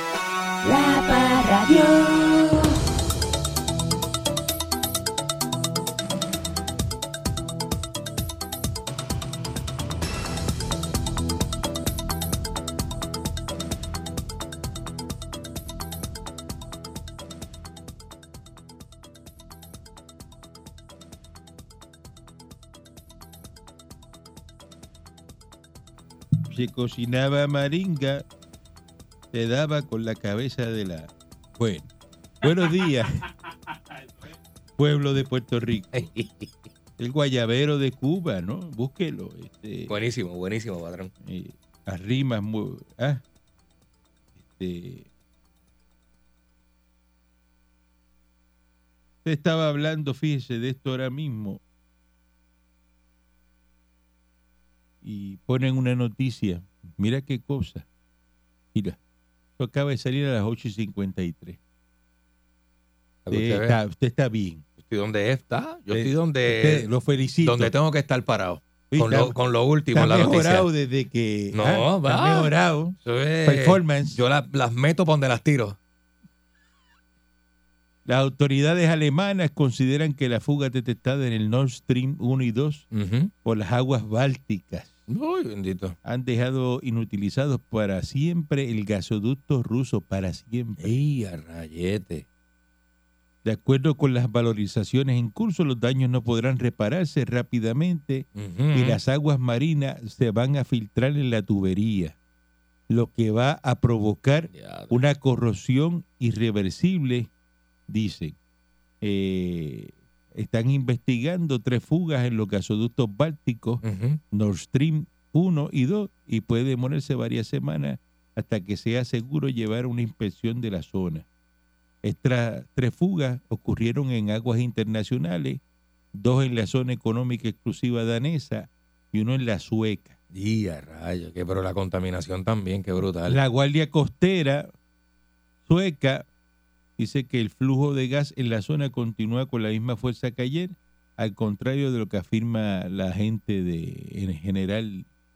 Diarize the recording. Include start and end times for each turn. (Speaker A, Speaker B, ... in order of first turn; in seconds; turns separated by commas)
Speaker A: 0.6-2.8, Speaker B: 26.5-28.2, Speaker B: 29.3-31.9, Speaker B: 32.4-33.2, Speaker B: 34.8-36.1, Speaker C: 35.9-36.5, Speaker B: 37.0-39.9, Speaker C: 39.9-41.1, Speaker B: 41.2-43.2, Speaker B: 44.4-45.1, Speaker B: 49.2-51.6, Speaker B: 55.0-57.9, Speaker B: 59.6-61.6, Speaker C: 63.3-63.8, Speaker B: 63.3-64.6, Speaker C: 64.8-66.9, Speaker B: 65.9-67.7, Speaker C: 67.4-70.7, Speaker B: 68.9-69.4, Speaker B: 69.9-74.2, Speaker C: 71.5-75.8, Speaker B: 78.1-82.9, Speaker C: 82.9-83.3, Speaker B: 83.4-84.9, Speaker C: 85.1-86.0, Speaker B: 86.0-90.9, Speaker C: 90.8-92.2, Speaker B: 93.4-102.2, Speaker C: 98.3-99.0, Speaker B: 102.9-107.3, Speaker C: 104.5-105.0, Speaker B: 107.9-108.4, Speaker B: 109.0-121.3, Speaker C: 113.8-114.2, Speaker B: 122.0-125.6, Speaker B: 126.1-130.2, Speaker C: 130.3-133.4, Speaker B: 133.3-134.7, Speaker B: 135.7-136.3, Speaker B: 137.0-145.1